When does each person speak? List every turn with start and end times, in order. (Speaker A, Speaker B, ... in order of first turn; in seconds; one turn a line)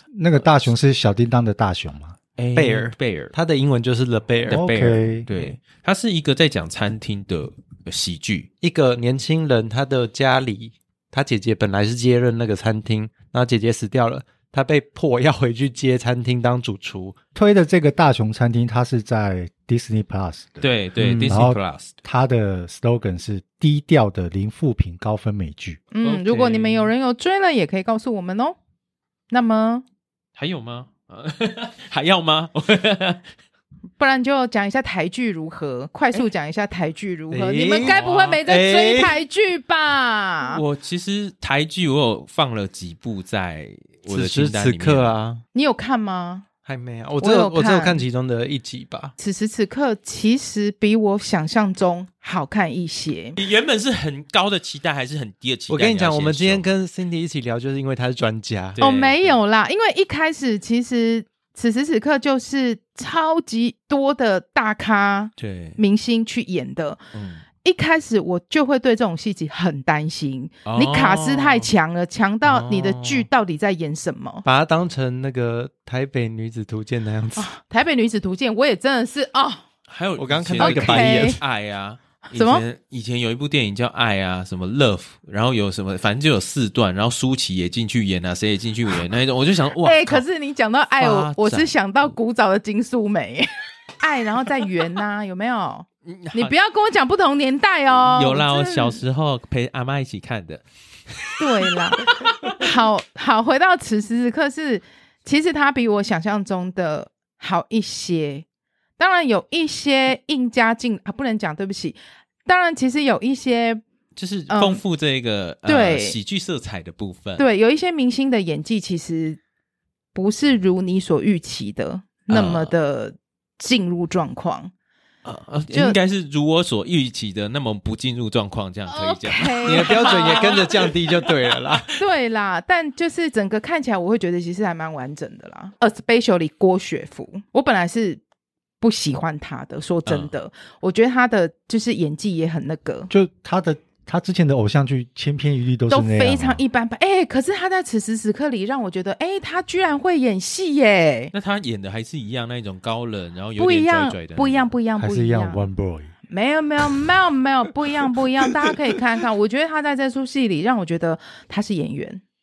Speaker A: 0.1-2.1
Speaker B: 2.4-3.3
Speaker C: 2.5-4.6
Speaker B: 4.4-8.5
Speaker A: 4.5-5.3
Speaker C: 5.3-5.5
Speaker C: 8.6-17.1
Speaker A: 17.3-20.7
Speaker B: 20.6-21.9
Speaker C: 21.0-21.4
Speaker A: 21.3-25.8
Speaker D: 25.9-28.6
Speaker B: 26.0-26.9
Speaker D: 29.3-29.8
Speaker B: 30.4-33.2
Speaker D: 34.0-40.6
Speaker C: 37.3-39.2
Speaker B: 37.8-38.4
Speaker B: 40.5-45.1
Speaker C: 44.1-45.4
Speaker D: 45.5-46.5
Speaker C: 46.6-49.1
Speaker D: 47.2-48.0
Speaker D: 49.2-53.4
Speaker B: 53.4-56.7
Speaker C: 55.7-58.8
Speaker B: 58.8-59.4
Speaker D: 58.8-67.0
Speaker B: 65.4-65.8
Speaker B: 67.1-67.4
Speaker D: 67.6-74.4
Speaker B: 70.6-71.7
Speaker C: 72.4-73.3
Speaker C: 74.4-77.5
Speaker D: 77.3-79.6
Speaker B: 79.9-90.2
Speaker C: 80.2-81.4
Speaker D: 80.6-81.4
Speaker D: 82.3-82.6
Speaker D: 89.8-99.0
Speaker B: 91.0-91.7
Speaker B: 96.0-96.5
Speaker B: 97.9-102.7
Speaker D: 101.4-108.4
Speaker D: 109.0-113.8
Speaker B: 114.2-117.4
Speaker D: 114.5-114.8
Speaker D: 115.7-116.2
Speaker D: 117.4-119.4
Speaker D: 120.1-124.7
Speaker B: 122.3-122.7
Speaker B: 125.2-131.2
Speaker D: 125.7-126.0
Speaker D: 128.9-130.9
Speaker C: 129.6-131.9
Speaker D: 131.9-138.2
Speaker D: 138.8-143.1
Speaker B: 140.1-140.3
Speaker A: 143.1-146.6
Speaker D: 145.9-151.3
Speaker B: 151.3-154.7
Speaker D: 153.6-155.7
Speaker A: 155.0-156.1
Speaker D: 156.3-162.2